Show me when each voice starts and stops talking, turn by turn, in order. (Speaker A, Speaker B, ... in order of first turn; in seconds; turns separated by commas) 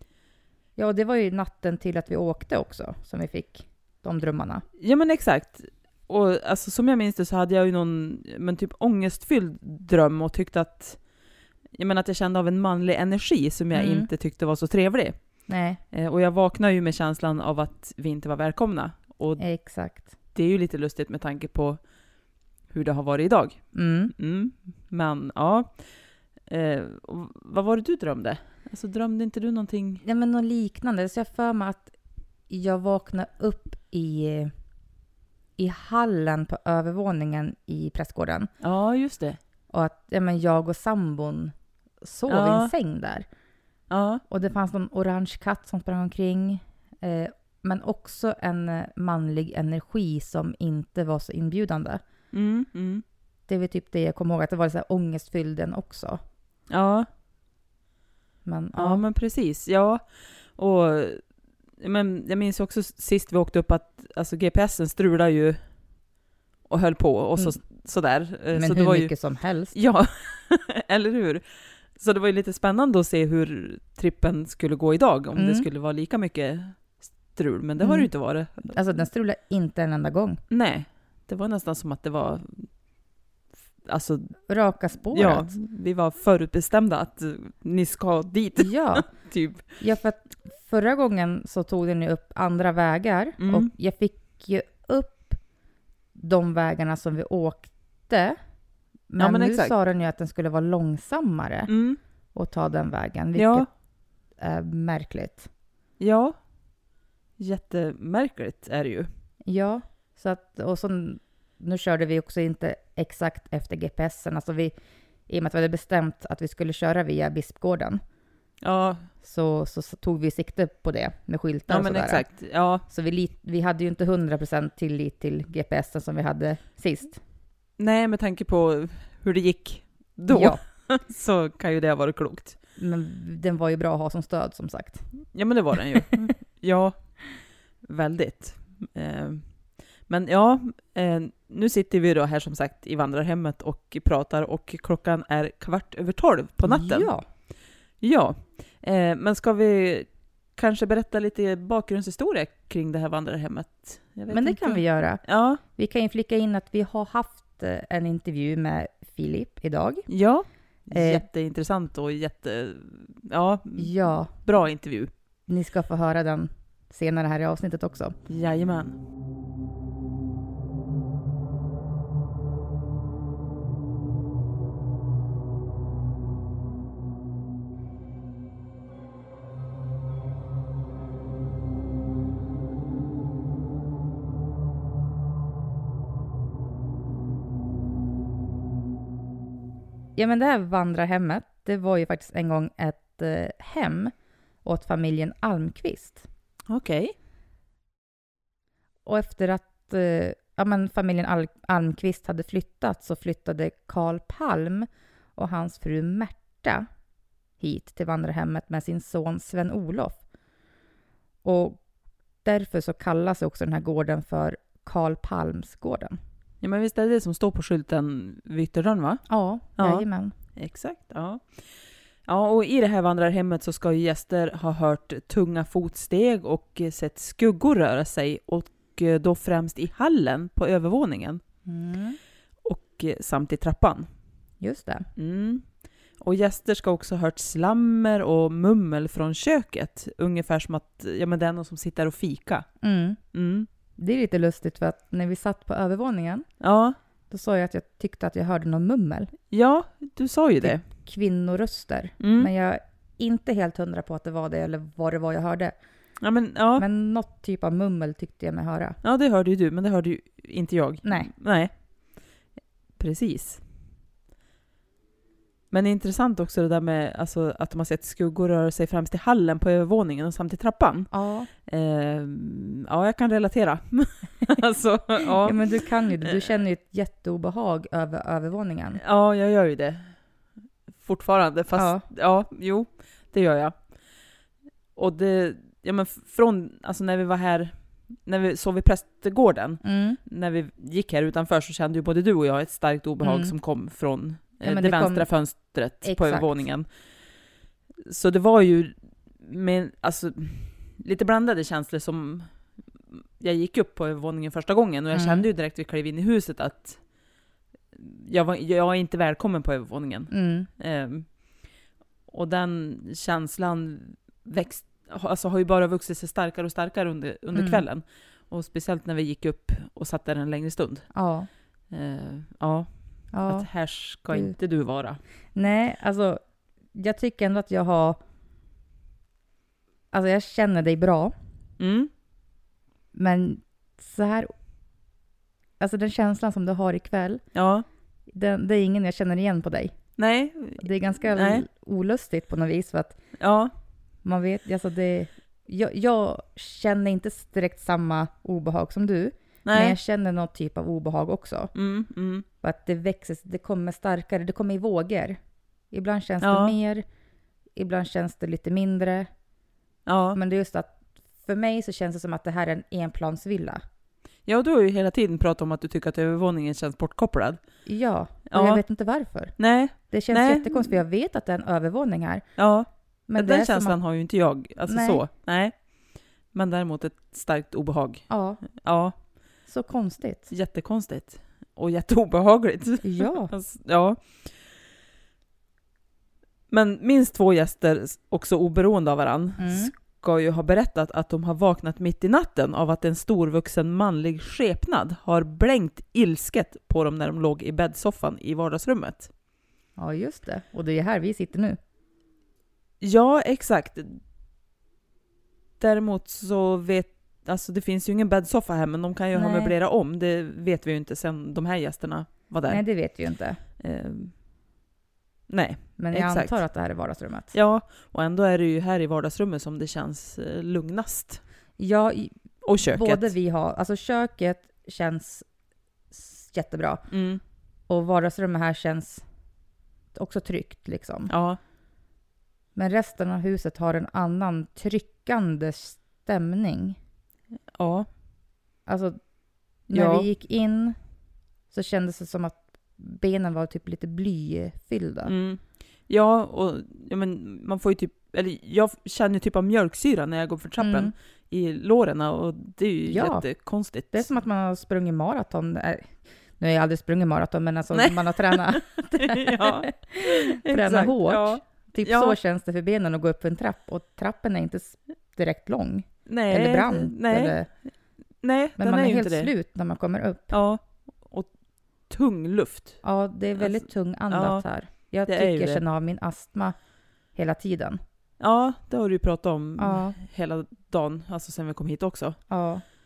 Speaker A: 0.8-4.6, Speaker B: 4.8-11.0, Speaker B: 11.8-15.2, Speaker A: 13.7-14.1, Speaker A: 15.5-15.8, Speaker B: 15.9-19.4, Speaker A: 19.4-20.1, Speaker B: 20.3-21.8, Speaker B: 22.7-23.6, Speaker A: 23.7-24.1, Speaker B: 24.2-25.7, Speaker B: 26.5-30.0, Speaker A: 30.0-31.9, Speaker A: 32.5-34.5, Speaker A: 35.6-38.5, Speaker B: 38.6-39.4, Speaker A: 39.7-43.2, Speaker B: 42.3-42.7, Speaker B: 43.9-44.2, Speaker A: 44.3-52.0, Speaker B: 52.3-53.0, Speaker A: 53.5-56.2, Speaker B: 56.7-57.1, Speaker A: 58.4-59.0, Speaker B: 58.8-60.0, Speaker B: 60.6-61.2, Speaker B: 61.8-65.6, Speaker B: 66.7-69.1, Speaker A: 68.5-69.7, Speaker B: 69.7-71.4, Speaker B: 72.0-78.7, Speaker A: 75.3-75.7, Speaker A: 77.8-78.1, Speaker A: 78.6-80.4, Speaker B: 80.5-82.7, Speaker B: 83.9-84.3, Speaker A: 84.5-85.5, Speaker B: 85.1-89.7, Speaker A: 88.6-89.1, Speaker A: 89.8-95.4, Speaker B: 93.4-93.7, Speaker A: 96.2-98.3, Speaker A: 99.1-101.7, Speaker B: 99.2-99.8, Speaker B: 101.7-102.0, Speaker A: 102.3-103.7, Speaker B: 103.3-103.7, Speaker A: 104.4-105.5, Speaker B: 106.0-106.3, Speaker B: 107.4-109.1, Speaker A: 109.5-114.7, Speaker A: 115.3-118.0, Speaker B: 118.6-119.0, Speaker A: 119.2-122.2, Speaker B: 121.7-122.8, Speaker A: 122.9-127.2, Speaker B: 127.8-132.6, Speaker A: 130.3-130.6, Speaker A: 132.8-135.0, Speaker B: 135.3-136.9, Speaker B: 137.9-139.4, Speaker B: 140.1-147.1, Speaker A: 146.6-147.2, Speaker B: 148.0-155.6, Speaker A: 154.3-160.1, Speaker B: 160.1-165.1, Speaker A: 160.9-161.2, Speaker A: 163.8-164.3, Speaker A: 165.5-168.1, Speaker B: 168.3-168.9, Speaker A: 190.2-194.1, Speaker A: 194.6-196.2, Speaker B: 196.7-197.1, Speaker A: 199.1-206.9, Speaker A: 207.6-210.2, Speaker A: 211.4-211.8, Speaker A: 212.4-216.2, Speaker B: 216.6-219.2, Speaker A: 219.3-220.3, Speaker B: 219.8-220.1, Speaker B: 220.6-221.4, Speaker B: 222.3-231.4, Speaker A: 231.7-232.2, Speaker B: 232.6-234.0, Speaker A: 234.6-235.1, Speaker B: 235.2-235.6, Speaker B: 236.2-242.7, Speaker A: 242.8-243.2, Speaker B: 243.3-243.7, Speaker A: 244.0-246.4, Speaker B: 246.6-247.0, Speaker A: 247.3-249.3, Speaker B: 249.5-250.8, Speaker A: 250.6-255.8, Speaker B: 252.2-252.5, Speaker B: 256.2-256.8, Speaker A: 256.8-259.0, Speaker B: 259.0-261.7, Speaker A: 261.0-261.3, Speaker B: 263.0-263.6, Speaker B: 265.7-271.1, Speaker A: 271.1-271.5, Speaker B: 271.7-275.6, Speaker A: 275.4-279.0, Speaker B: 276.2-276.5, Speaker B: 279.0-280.1, Speaker B: 281.0-283.7, Speaker A: 281.8-282.0, Speaker B: 284.9-287.7, Speaker B: 288.2-296.9, Speaker A: 289.8-290.2, Speaker A: 293.2-293.5, Speaker A: 294.6-296.6, Speaker B: 298.1-302.4, Speaker B: 303.4-307.0, Speaker A: 305.1-305.5, Speaker B: 307.9-311.3, Speaker A: 310.3-310.7, Speaker B: 312.3-321.1, Speaker A: 317.5-317.8, Speaker A: 321.1-321.5, Speaker B: 321.9-322.9, Speaker A: 323.3-323.7, Speaker B: 323.5-325.2, Speaker A: 325.5-326.4, Speaker A: 326.9-328.2, Speaker A: 330.1-331.3, Speaker B: 331.8-332.1, Speaker A: 333.1-334.5, Speaker A: 335.8-337.4, Speaker B: 337.5-337.8, Speaker A: 338.3-339.9, Speaker B: 340.2-341.6, Speaker A: 340.8-343.2, Speaker B: 343.4-343.7, Speaker A: 344.2-351.7, Speaker B: 349.6-350.0, Speaker B: 351.7-352.4, Speaker A: 352.6-355.4, Speaker A: 355.9-357.0, Speaker B: 356.4-356.8, Speaker A: 357.8-359.3, Speaker B: 360.1-360.4, Speaker A: 360.3-363.8, Speaker B: 364.4-367.6, Speaker A: 367.9-369.5, Speaker B: 368.5-368.8, Speaker B: 369.6-371.0, Speaker A: 370.1-372.4, Speaker B: 372.6-375.7, Speaker A: 373.3-374.0, Speaker A: 374.9-375.2, Speaker B: 376.5-378.2, Speaker A: 378.3-378.6, Speaker B: 378.8-379.1, Speaker A: 379.7-380.5, Speaker B: 380.5-384.2, Speaker A: 383.0-383.5, Speaker B: 386.7-399.3, Speaker A: 389.6-389.9, Speaker A: 400.0-401.8, Speaker B: 403.0-404.2, Speaker B: 405.8-412.8, Speaker A: 409.3-409.7, Speaker A: 412.7-413.6, Speaker B: 413.8-414.3, Speaker B: 415.5-416.6, Speaker A: 416.0-417.5, Speaker B: 417.5-421.4, Speaker A: 421.8-425.4, Speaker B: 422.6-423.3, Speaker A: 426.1-427.0, Speaker B: 427.1-427.4, Speaker A: 427.9-429.2, Speaker A: 430.1-431.3, Speaker B: 431.3-431.6, Speaker A: 432.7-437.0, Speaker B: 437.8-438.1, Speaker A: 438.9-439.2, Speaker A: 439.9-440.9, Speaker B: 439.9-440.3, Speaker A: 441.7-445.3, Speaker B: 445.2-454.2, Speaker A: 450.8-451.1, Speaker A: 453.1-453.5, Speaker A: 454.1-467.7, Speaker B: 457.9-462.4, Speaker B: 466.3-467.6, Speaker B: 468.4-469.5, Speaker A: 468.8-470.6, Speaker B: 470.5-471.5, Speaker B: 472.1-473.0, Speaker A: 473.0-476.8, Speaker B: 473.6-474.6, Speaker B: 475.2-475.8, Speaker A: 477.3-478.0, Speaker B: 478.4-482.4, Speaker A: 479.8-480.1, Speaker A: 482.5-482.8